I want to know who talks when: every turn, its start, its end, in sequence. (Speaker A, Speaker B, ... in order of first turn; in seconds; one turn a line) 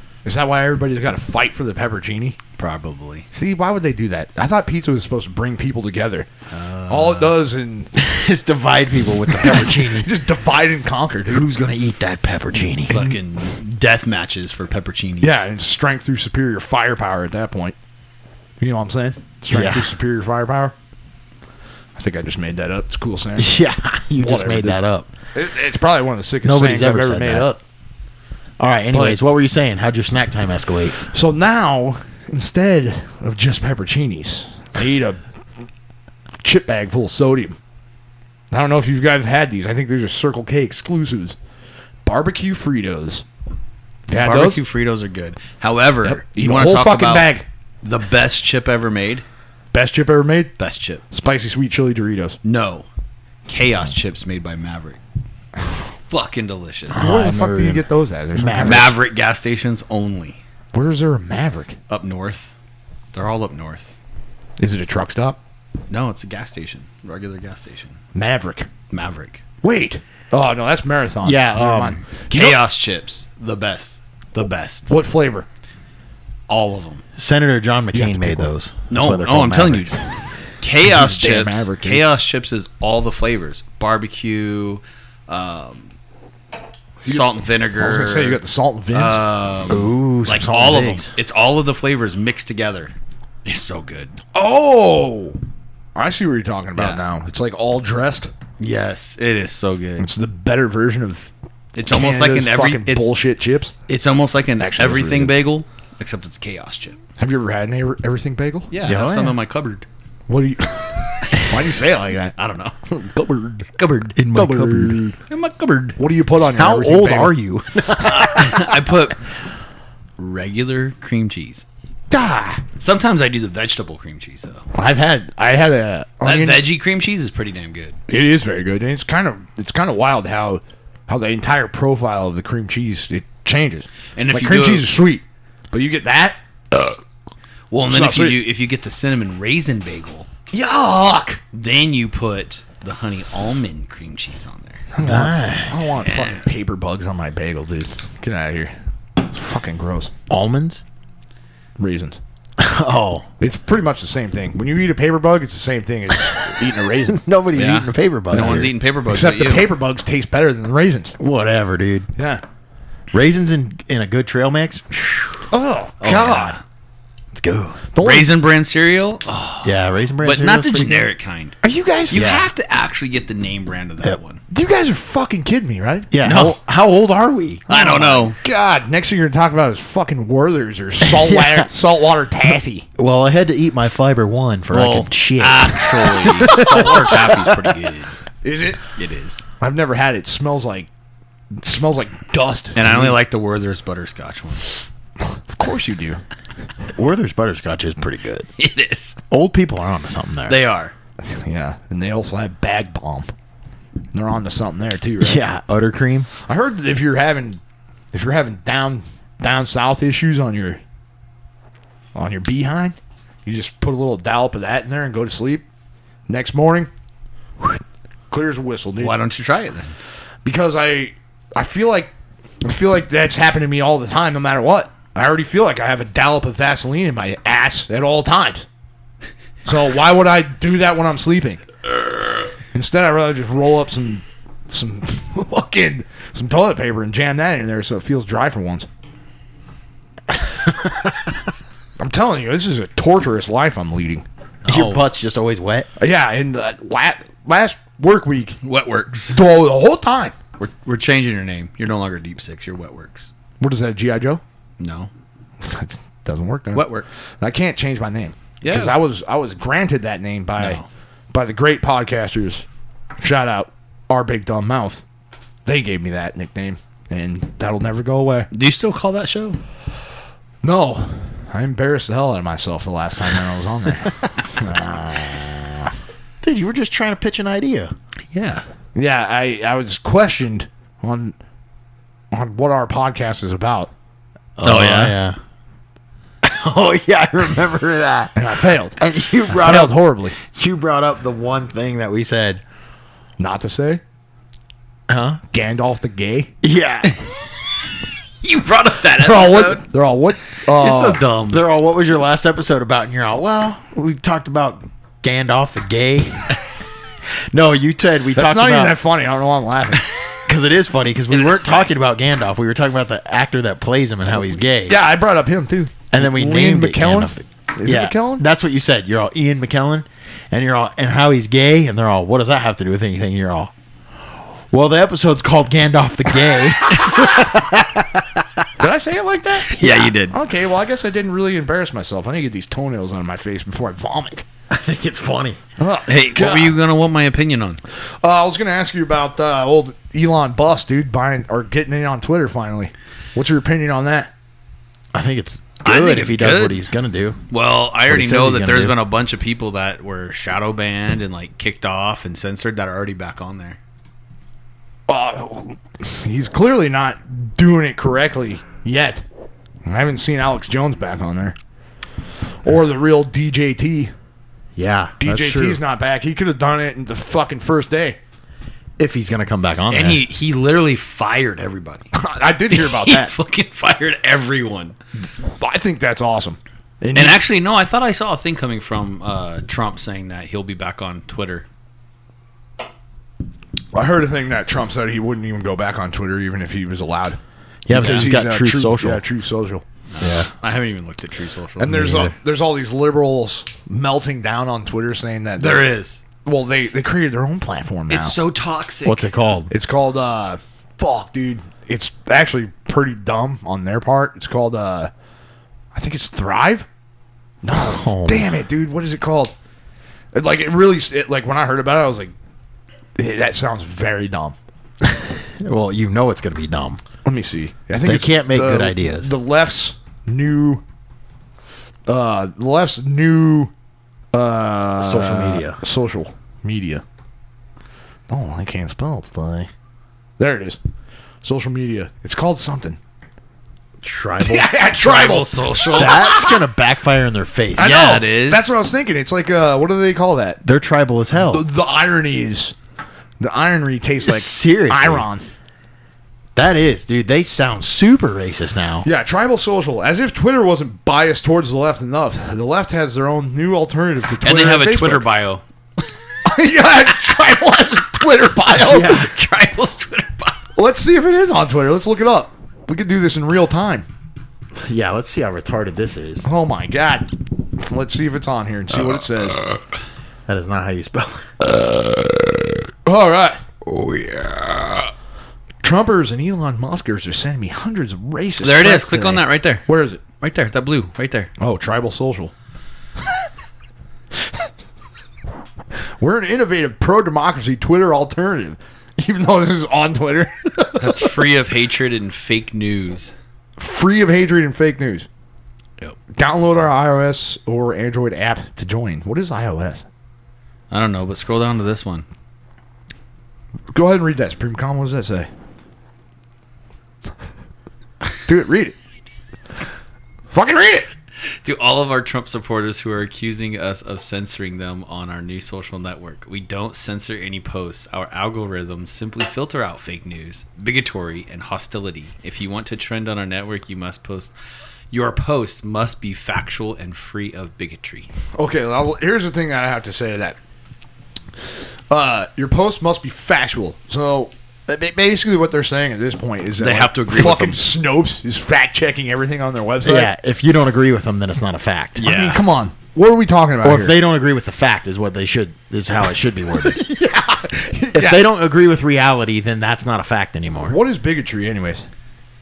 Speaker A: 0.2-2.4
Speaker B: 2.6-3.2
Speaker A: 3.3-6.3
Speaker B: 6.5-7.3
Speaker A: 6.9-7.9
Speaker C: 8.0-10.1
Speaker A: 9.3-11.5
Speaker C: 11.3-13.1
Speaker B: 12.9-15.4
Speaker A: 15.2-17.8
Speaker A: 18.6-20.7
Speaker C: 19.5-19.9
Speaker A: 21.9-23.6
Speaker C: 23.4-25.1
Speaker A: 24.2-24.8
Speaker A: 25.3-27.6
Speaker C: 26.4-27.5
Speaker C: 28.6-31.0
Speaker A: 28.9-29.2
Speaker A: 31.1-35.2
Speaker A: 36.4-37.6
Speaker A: 38.5-41.4
Speaker A: 42.0-43.2
Speaker A: 44.1-44.6
Speaker B: 44.1-47.3
Speaker A: 46.0-47.4
Speaker B: 47.8-49.2
Speaker A: 49.7-50.5
Speaker B: 50.6-51.0
Speaker A: 51.1-52.4
Speaker B: 52.4-52.9
Speaker B: 53.5-55.0
Speaker B: 56.1-57.1
Speaker C: 56.9-57.8
Speaker A: 57.0-59.0
Speaker C: 58.4-58.9
Speaker B: 58.6-60.4
Speaker A: 60.7-61.8
Speaker B: 61.9-62.5
Speaker B: 63.1-63.9
Speaker A: 64.6-65.4
Speaker B: 65.9-68.0
Speaker A: 68.1-68.7
Speaker B: 68.9-69.4
Speaker A: 69.6-72.6
Speaker C: 71.2-72.0
Speaker B: 72.3-74.9
Speaker A: 74.9-75.5
Speaker B: 76.5-77.0
Speaker C: 77.2-80.0
Speaker A: 77.9-78.5
Speaker B: 78.9-80.0
Speaker B: 80.6-85.9
Speaker A: 80.8-82.1
Speaker A: 87.0-89.3
Speaker B: 87.1-88.4
Speaker B: 88.9-92.9
Speaker C: 89.7-91.1
Speaker B: 93.4-94.2
Speaker A: 94.3-95.4
Speaker A: 95.9-98.3
Speaker B: 96.8-97.0
Speaker B: 98.6-100.1
Speaker A: 100.0-101.3
Speaker B: 101.8-103.1
Speaker A: 101.9-103.8
Speaker B: 103.9-107.0
Speaker A: 104.6-105.4
Speaker A: 107.2-108.7
Speaker B: 108.7-109.9
Speaker C: 108.8-109.4
Speaker A: 110.3-112.4
Speaker B: 112.4-112.8
Speaker A: 112.9-113.7
Speaker B: 113.8-114.2
Speaker C: 114.2-115.1
Speaker A: 114.3-115.1
Speaker B: 115.3-116.0
Speaker A: 116.0-117.4
Speaker C: 116.5-118.8
Speaker B: 118.1-119.3
Speaker B: 120.2-121.6
Speaker A: 122.1-122.6
Speaker B: 122.8-124.6
Speaker A: 124.7-126.7
Speaker B: 126.2-128.0
Speaker A: 128.1-136.9
Speaker B: 134.1-134.9
Speaker B: 137.7-140.3
Speaker A: 137.9-138.4
Speaker A: 140.5-141.4
Speaker B: 141.5-144.9
Speaker A: 144.9-150.1
Speaker C: 145.0-145.8
Speaker B: 146.0-146.4
Speaker C: 150.3-150.8
Speaker A: 151.8-152.2
Speaker C: 152.6-153.3
Speaker A: 153.4-157.2
Speaker C: 157.1-158.8
Speaker B: 157.5-159.7
Speaker A: 159.1-161.2
Speaker C: 161.2-162.1
Speaker A: 162.2-162.4
Speaker C: 163.1-165.4
Speaker A: 165.5-166.6
Speaker B: 166.0-166.6
Speaker C: 167.3-167.8
Speaker A: 167.9-168.4
Speaker B: 168.0-171.6
Speaker C: 169.6-171.1
Speaker A: 171.6-172.4
Speaker B: 172.1-174.4
Speaker C: 172.1-172.5
Speaker A: 174.5-176.4
Speaker C: 176.1-177.7
Speaker B: 176.2-176.6
Speaker B: 177.7-178.4
Speaker A: 177.7-182.9
Speaker C: 181.0-181.7
Speaker C: 183.0-187.5
Speaker B: 184.7-188.1
Speaker A: 186.4-187.3
Speaker A: 188.4-188.9
Speaker B: 188.9-189.4
Speaker A: 189.6-190.9
Speaker A: 191.6-193.2
Speaker B: 192.8-194.8
Speaker A: 195.3-196.2
Speaker C: 196.9-198.5
Speaker B: 198.6-199.2
Speaker C: 199.3-200.6
Speaker B: 200.5-200.9
Speaker A: 201.2-203.3
Speaker A: 204.1-205.4
Speaker C: 205.2-206.3
Speaker A: 206.4-207.6
Speaker A: 208.1-210.8
Speaker A: 212.1-215.6
Speaker A: 216.3-216.9
Speaker A: 218.3-219.2
Speaker B: 219.0-220.0
Speaker A: 220.4-222.1
Speaker A: 222.6-228.7
Speaker A: 229.6-231.6
Speaker A: 232.7-238.9
Speaker A: 242.0-244.2
Speaker B: 244.6-245.0
Speaker C: 244.7-245.9
Speaker A: 246.0-248.6
Speaker B: 248.6-249.4
Speaker A: 249.3-250.3
Speaker B: 250.6-253.3
Speaker A: 253.6-254.4
Speaker B: 254.8-255.1
Speaker A: 255.6-260.8
Speaker B: 256.7-257.2
Speaker B: 258.6-259.0
Speaker B: 260.6-260.9
Speaker A: 261.3-262.6
Speaker A: 263.2-265.0
Speaker A: 265.6-268.5
Speaker B: 268.5-269.6
Speaker A: 270.6-275.9
Speaker C: 274.6-275.6
Speaker C: 276.4-277.9
Speaker B: 278.3-278.6
Speaker A: 278.9-281.4
Speaker A: 282.3-283.9
Speaker C: 284.6-285.4
Speaker B: 284.6-285.2
Speaker C: 286.4-292.6
Speaker A: 288.4-289.0
Speaker A: 289.5-290.4
Speaker A: 293.4-294.0
Speaker C: 295.1-295.4
Speaker A: 295.5-296.5
Speaker C: 296.6-297.2
Speaker B: 298.4-299.8
Speaker A: 299.2-301.2
Speaker B: 300.7-301.6
Speaker C: 301.5-306.5
Speaker C: 307.5-309.0
Speaker A: 308.4-310.0
Speaker C: 310.5-315.0
Speaker B: 311.3-311.9
Speaker A: 314.9-318.4
Speaker C: 316.1-323.7
Speaker C: 324.7-328.6
Speaker A: 328.8-329.8
Speaker B: 329.7-330.4
Speaker C: 329.8-330.1
Speaker A: 330.3-334.4
Speaker C: 334.7-335.6
Speaker A: 335.8-336.8
Speaker B: 336.1-337.8
Speaker A: 338.2-344.3
Speaker C: 345.1-347.4
Speaker B: 345.8-346.8
Speaker B: 347.5-353.8
Speaker C: 348.0-349.0
Speaker A: 355.1-359.2
Speaker A: 359.9-361.5
Speaker A: 362.6-364.1
Speaker C: 364.8-365.8
Speaker A: 365.2-368.2
Speaker C: 369.0-370.2
Speaker B: 369.9-372.1
Speaker A: 372.1-373.3
Speaker B: 372.7-375.0
Speaker A: 375.4-377.4
Speaker B: 377.1-381.6
Speaker A: 383.9-389.8
Speaker C: 387.9-389.2
Speaker B: 390.1-392.2
Speaker C: 390.2-390.5
Speaker A: 391.8-395.9
Speaker C: 391.9-392.3
Speaker B: 395.6-396.2
Speaker A: 396.4-398.4
Speaker B: 398.1-399.3
Speaker C: 399.0-399.7
Speaker A: 399.7-405.1
Speaker A: 405.9-406.9
Speaker A: 407.6-409.5
Speaker C: 407.7-408.5
Speaker A: 410.3-412.3
Speaker A: 413.2-414.6
Speaker C: 415.0-417.0
Speaker A: 417.2-420.8
Speaker C: 418.0-419.3
Speaker A: 422.1-423.7
Speaker A: 424.3-427.0
Speaker C: 425.0-425.8
Speaker A: 428.3-429.7
Speaker A: 430.4-430.8
Speaker A: 431.4-433.0
Speaker C: 434.0-434.7
Speaker A: 434.4-436.6
Speaker B: 435.0-436.3
Speaker C: 435.9-438.2
Speaker B: 437.8-438.7
Speaker A: 437.8-440.6
Speaker C: 440.6-441.6
Speaker A: 441.3-442.8
Speaker A: 443.4-445.5
Speaker C: 444.2-445.3
Speaker C: 446.6-449.1
Speaker A: 449.0-455.2
Speaker B: 454.4-455.6
Speaker A: 456.4-459.2
Speaker C: 458.9-459.3
Speaker B: 458.9-460.6
Speaker A: 460.8-464.1
Speaker C: 464.8-466.5
Speaker A: 466.4-469.6
Speaker C: 470.5-471.5
Speaker A: 473.0-475.0
Speaker A: 475.8-480.2
Speaker B: 478.6-479.9
Speaker B: 480.4-481.5
Speaker A: 481.6-482.5
Speaker A: 486.2-491.4
Speaker B: 491.0-493.3
Speaker A: 493.8-495.3
Speaker A: 496.4-500.0
Speaker B: 500.9-502.2
Speaker A: 503.9-505.5
Speaker A: 508.5-508.9
Speaker A: 510.5-511.1
Speaker B: 511.6-524.5
Speaker B: 525.1-528.3
Speaker A: 528.5-530.6
Speaker A: 532.1-540.3
Speaker B: 536.8-537.9
Speaker C: 540.0-542.2
Speaker B: 542.2-542.6
Speaker A: 542.2-544.1
Speaker C: 543.8-547.0
Speaker A: 546.7-548.5
Speaker C: 548.1-551.0
Speaker A: 550.9-552.1